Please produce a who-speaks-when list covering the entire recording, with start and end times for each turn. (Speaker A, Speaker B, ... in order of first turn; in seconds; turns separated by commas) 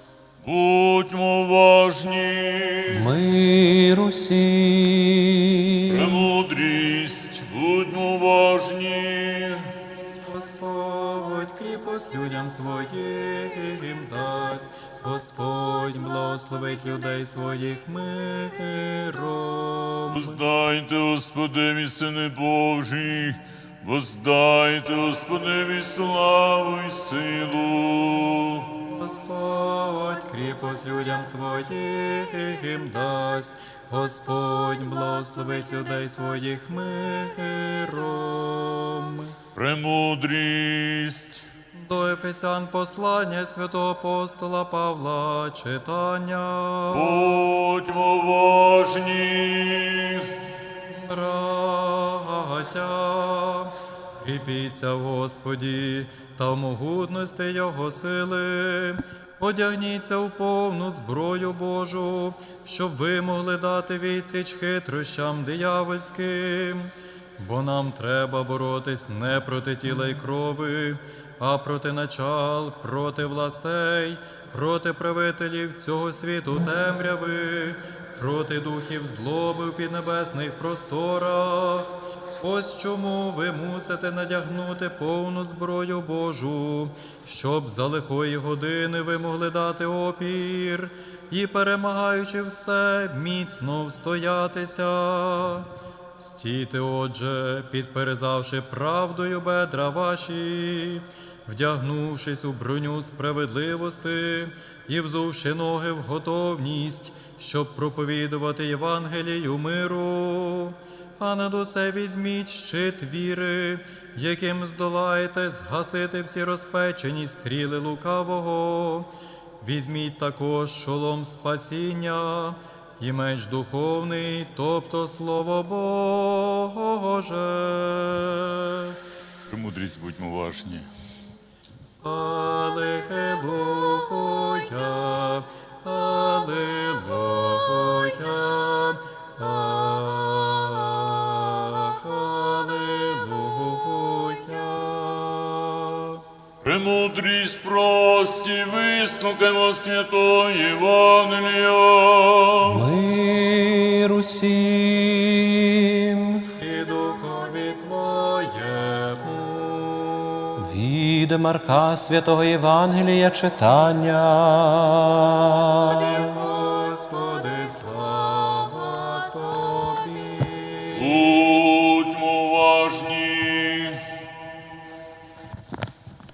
Speaker A: 0.4-3.1, Speaker B: 2.9-6.3, Speaker A: 5.9-9.7, Speaker C: 10.1-20.4, Speaker A: 20.1-28.7, Speaker C: 28.8-39.4, Speaker A: 39.5-41.5, Speaker C: 41.7-47.4, Speaker A: 46.9-50.3, Speaker C: 50.9-119.1, Speaker C: 119.6-129.0, Speaker A: 129.5-130.9, Speaker C: 132.0-146.2, Speaker A: 146.6-152.9, Speaker B: 152.6-156.5, Speaker C: 156.6-160.6, Speaker B: 160.6-166.2, Speaker C: 165.8-171.2, Speaker A: 170.9-174.0